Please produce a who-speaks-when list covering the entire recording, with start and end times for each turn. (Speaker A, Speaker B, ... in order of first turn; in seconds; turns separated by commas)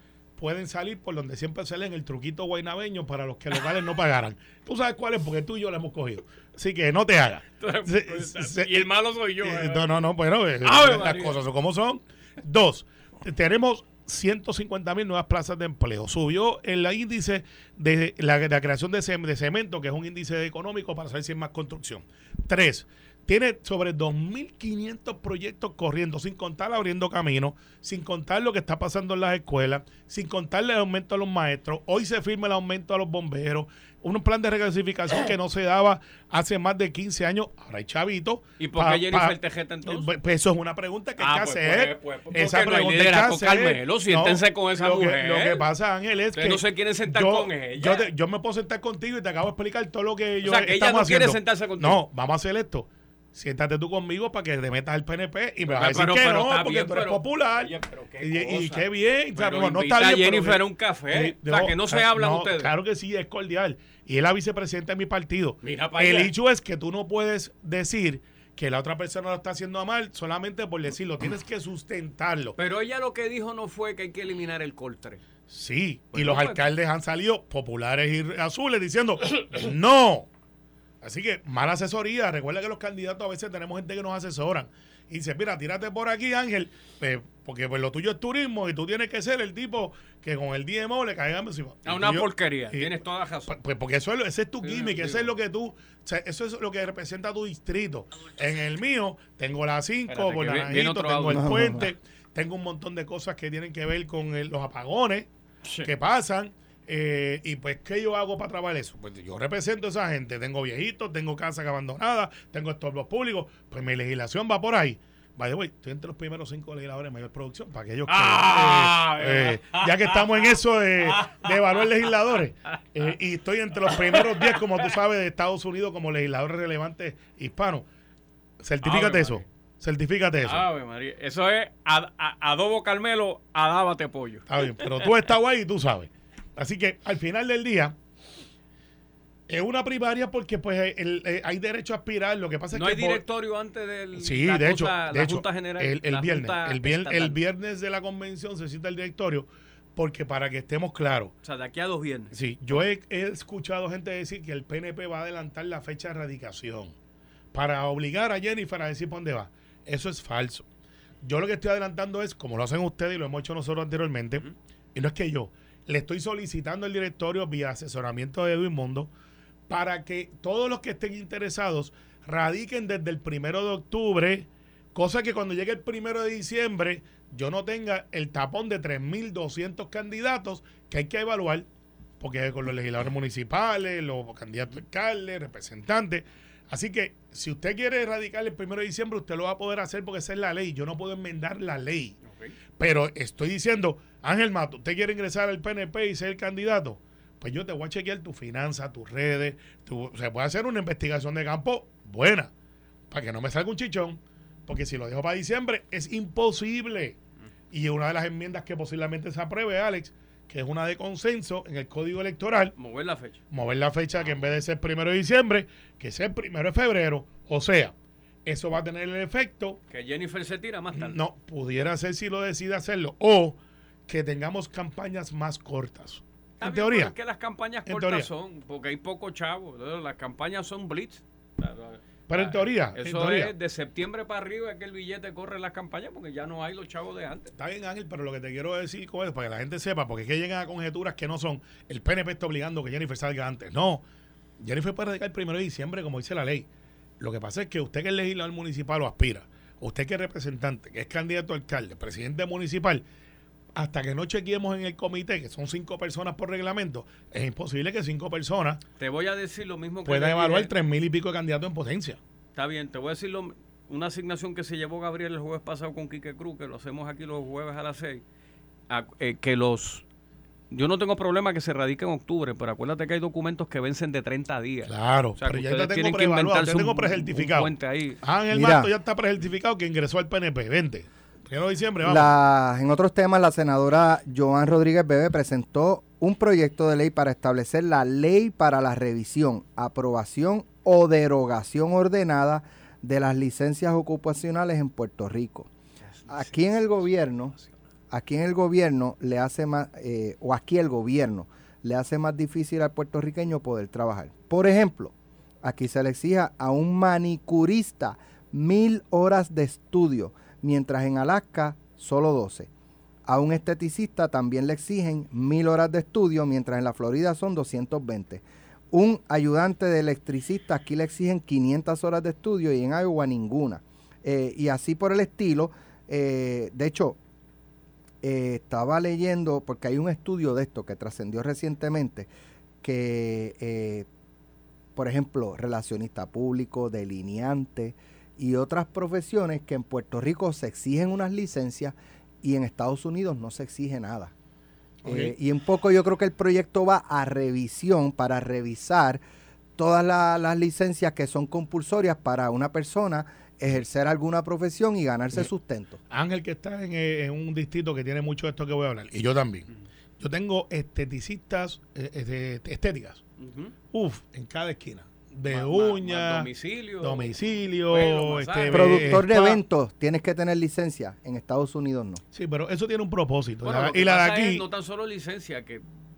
Speaker A: 0.4-8.9, Speaker B: 7.6-9.9, Speaker A: 9.4-72.5, Speaker B: 10.6-11.4, Speaker B: 38.6-40.1, Speaker B: 41.2-45.6, Speaker B: 46.3-48.1, Speaker B: 50.4-52.0, Speaker B: 55.7-62.7, Speaker B: 65.6-66.3, Speaker B: 72.6-75.2, Speaker A: 75.5-80.3, Speaker B: 76.1-76.6, Speaker A: 81.0-92.9, Speaker B: 91.8-93.6, Speaker A: 93.5-105.3, Speaker B: 94.6-95.3, Speaker B: 100.1-101.5, Speaker C: 101.3-101.9, Speaker B: 105.7-105.9, Speaker A: 105.8-127.8, Speaker B: 118.1-122.0, Speaker B: 123.9-124.9, Speaker A: 128.6-130.7, Speaker B: 128.8-129.4, Speaker B: 130.4-135.2, Speaker A: 134.5-138.0, Speaker A: 139.5-143.2, Speaker B: 142.7-147.4, Speaker A: 144.2-151.3, Speaker B: 151.4-152.3, Speaker A: 152.3-156.9, Speaker A: 157.5-160.7, Speaker A: 161.2-169.1, Speaker A: 169.7-181.7, Speaker A: 182.2-192.2, Speaker B: 192.3-192.5, Speaker A: 192.8-202.5, Speaker A: 203.1-207.2, Speaker A: 207.7-212.7, Speaker B: 212.8-213.4, Speaker A: 213.5-217.9, Speaker A: 218.5-219.8, Speaker B: 219.9-221.2, Speaker A: 220.9-227.1, Speaker B: 226.6-237.5, Speaker A: 227.9-228.3, Speaker A: 232.3-233.5, Speaker A: 237.6-244.0, Speaker A: 244.6-246.7, Speaker A: 247.2-253.0, Speaker A: 253.8-258.8, Speaker B: 259.0-260.7, Speaker A: 260.1-262.2, Speaker B: 262.6-268.2, Speaker B: 268.9-270.0, Speaker B: 270.7-278.2, Speaker A: 274.9-282.3, Speaker C: 278.5-278.9, Speaker C: 282.0-295.7, Speaker B: 296.1-296.9, Speaker C: 296.3-297.5, Speaker C: 298.1-312.7, Speaker C: 313.3-327.2, Speaker C: 328.2-332.3, Speaker C: 332.8-334.1, Speaker C: 335.0-344.3, Speaker A: 345.0-345.3, Speaker C: 345.1-349.2, Speaker C: 349.8-356.0, Speaker A: 356.1-359.7, Speaker A: 360.2-363.2, Speaker B: 363.4-363.7, Speaker A: 363.9-366.5, Speaker B: 365.5-367.3, Speaker A: 367.0-369.6, Speaker B: 367.9-369.2, Speaker C: 368.7-372.2, Speaker A: 372.3-374.6, Speaker B: 373.6-375.8